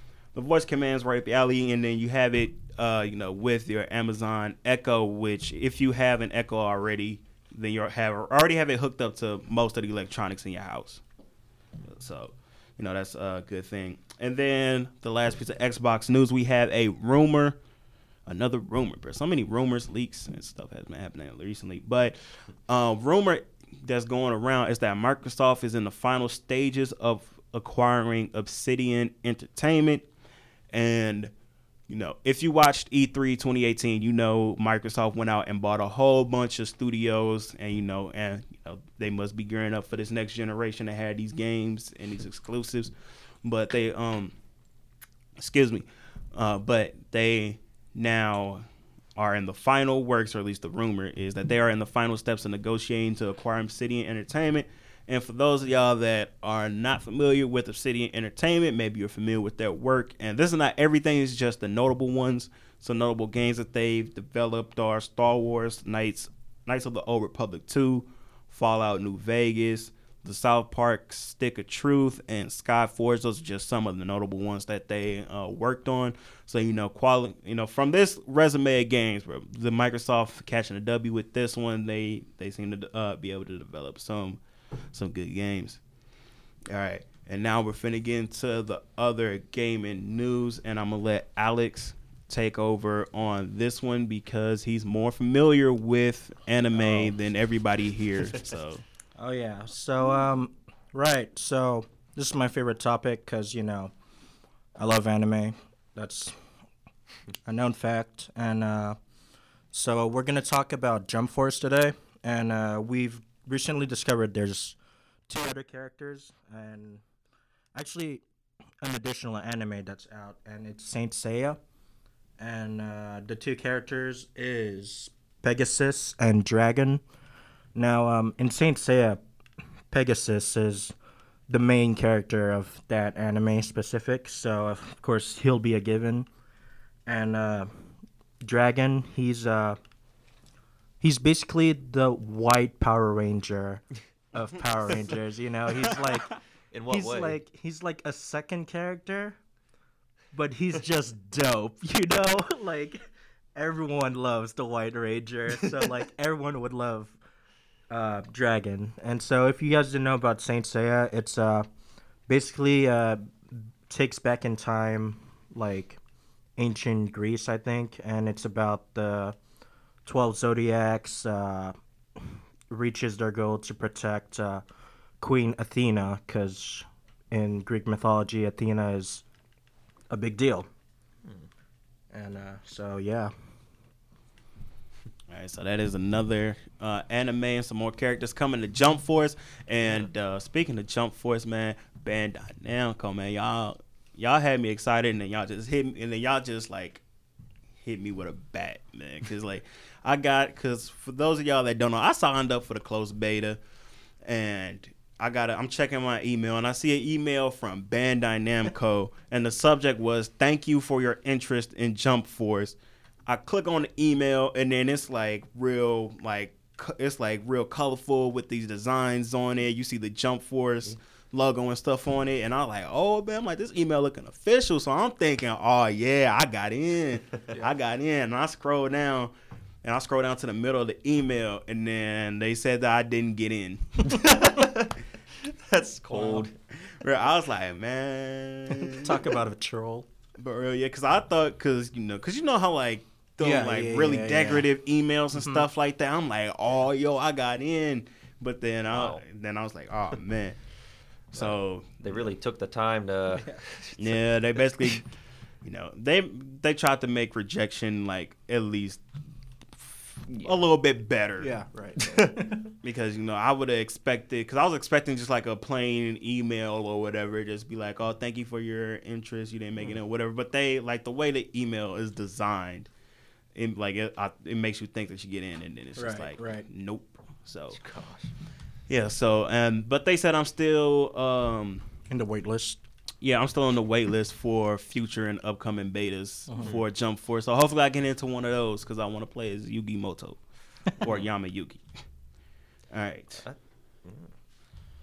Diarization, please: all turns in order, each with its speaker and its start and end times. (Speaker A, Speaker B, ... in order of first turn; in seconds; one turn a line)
Speaker A: 0.3-11.0
Speaker A: 11.8-17.6
Speaker A: 18.3-22.2
Speaker A: 22.7-30.1
Speaker A: 30.7-31.3
Speaker A: 31.9-42.9
Speaker A: 43.4-44.3
Speaker A: 45.4-48.6
Speaker A: 49.2-84.4
Speaker A: 84.9-85.8
Speaker A: 86.7-98.8
Speaker B: 96.7-97.1
Speaker B: 99.2-103.9
Speaker B: 104.8-106.4
Speaker B: 107.5-109.0
Speaker B: 109.7-114.8
Speaker B: 115.3-117.0
Speaker B: 117.7-118.2
Speaker B: 118.8-121.6
Speaker B: 122.4-127.0
Speaker B: 127.8-129.2
Speaker B: 129.9-130.9
Speaker B: 131.5-136.3
Speaker B: 137.1-137.7
Speaker B: 138.4-139.8
Speaker B: 141.0-146.4
Speaker C: 146.7-147.4
Speaker B: 146.9-149.4
Speaker B: 150.3-153.0
Speaker B: 153.6-157.2
Speaker B: 157.9-161.7
Speaker B: 162.3-166.0
Speaker B: 166.6-169.3
Speaker B: 170.1-174.6
Speaker B: 175.2-179.2
Speaker B: 180.1-180.7
Speaker B: 182.1-183.3
Speaker A: 185.3-197.0
Speaker A: 197.8-203.6
Speaker A: 204.2-229.3
Speaker A: 229.8-234.7
Speaker C: 234.1-234.9
Speaker C: 235.4-236.5
Speaker A: 236.3-239.2
Speaker B: 238.8-240.1
Speaker A: 240.4-250.6
Speaker B: 243.4-244.7
Speaker C: 248.9-249.2
Speaker A: 251.3-252.0
Speaker C: 251.3-254.2
Speaker A: 254.0-255.1
Speaker A: 255.6-259.0
Speaker A: 259.8-261.5
Speaker B: 261.4-262.6
Speaker C: 262.0-262.4
Speaker A: 262.8-272.9
Speaker A: 273.6-277.8
Speaker B: 276.0-276.7
Speaker C: 277.7-278.3
Speaker A: 278.9-281.9
Speaker B: 282.1-282.8
Speaker A: 283.2-291.8
Speaker A: 292.9-293.5
Speaker C: 293.4-294.3